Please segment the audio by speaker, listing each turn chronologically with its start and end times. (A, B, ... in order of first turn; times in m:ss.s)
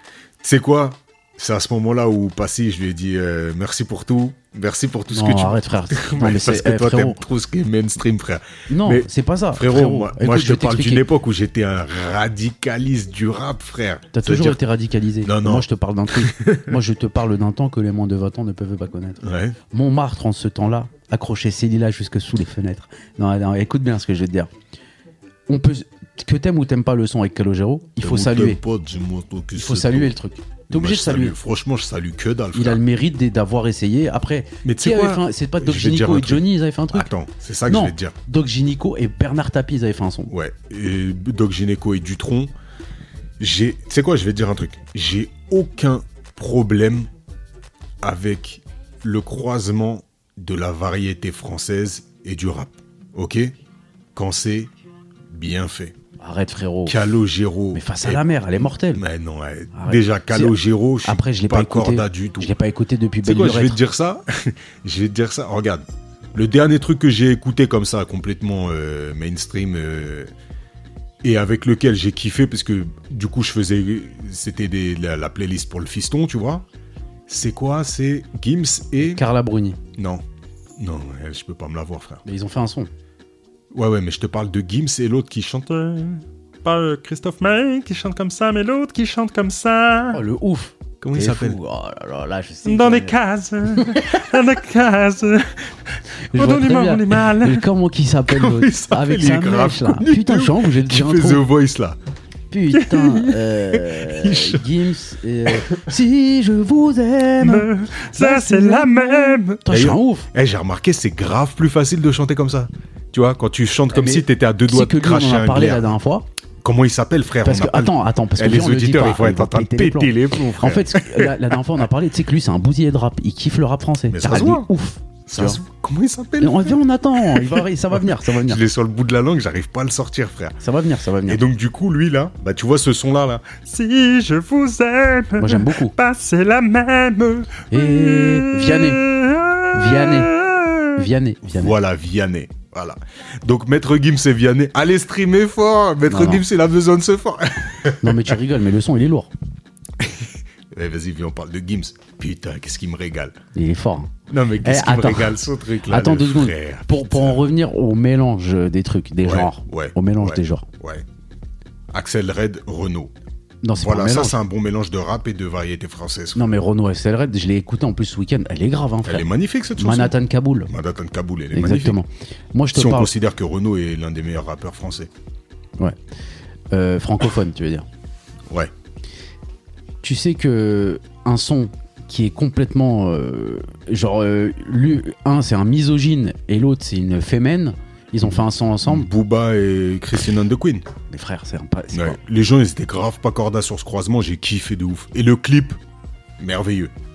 0:00.4-0:14.6 A
0:05.1-0:07.2 B
0:08.7-0:11.0 B
0:14.1-0:24.5 B
0:15.2-0:16.8 A
0:19.2-0:19.6 A
0:25.5-0:28.6 B
0:28.0-0:30.1 A
0:29.5-0:31.4 B
0:30.7-0:32.8 A
0:32.5-0:37.1 B
0:34.6-0:38.2 A
0:37.7-0:40.3 B
0:40.3-0:42.5 A
0:43.4-0:47.1 A
0:48.0-0:53.5 A
0:54.1-0:54.7 A
0:55.3-0:56.0 A
0:56.2-0:57.0 B
0:56.8-0:58.2 A
0:57.7-0:59.0 B
0:58.8-1:02.5 A
0:59.7-1:03.8 B
1:03.2-1:10.3 A
1:11.2-1:16.6 A
1:17.3-1:19.2 A
1:19.0-1:19.8 B
1:20.0-1:20.2 A
1:20.8-1:22.2 A
1:22.2-1:22.9 B
1:23.7-1:25.7 A
1:25.7-1:30.2 C
1:30.1-1:33.2 B
1:31.0-1:31.6 A
1:32.6-1:35.6 C
1:36.3-1:37.6 C
1:36.3-1:41.4 B
1:38.3-1:42.0 A
1:42.5-1:50.3 B
1:42.9-1:43.2 C
1:43.8-1:44.7 A
1:47.4-1:49.6 C
1:49.6-1:55.9 A
1:53.9-1:56.3 B
1:56.6-2:01.6 A
1:57.4-2:05.6 B
2:04.1-2:04.7 A
2:05.2-2:10.6 A
2:06.4-2:08.6 B
2:10.6-2:11.4 B
2:11.2-2:13.5 A
2:13.7-2:20.9 C
2:15.4-2:15.9 B
2:17.7-2:19.0 B
2:19.7-2:20.3 B
2:21.0-2:21.8 B
2:21.4-2:28.3 A
2:26.1-2:26.4 B
2:28.0-2:29.3 B
2:30.0-2:33.4 A
2:33.5-2:40.7 B
2:34.3-2:37.5 A
2:39.2-2:41.0 A
2:41.9-2:43.1 A
2:43.6-2:44.3 B
2:43.8-2:46.5 A
2:46.3-2:49.3 B
2:49.0-2:52.0 A
2:49.8-2:50.7 B
2:51.5-2:53.1 B
2:52.7-2:55.1 A
2:56.7-2:57.9 B
3:00.0-3:09.1 B
3:08.8-3:10.9 A
3:11.1-3:12.2 B
3:11.9-3:15.8 A
3:16.4-3:16.9 A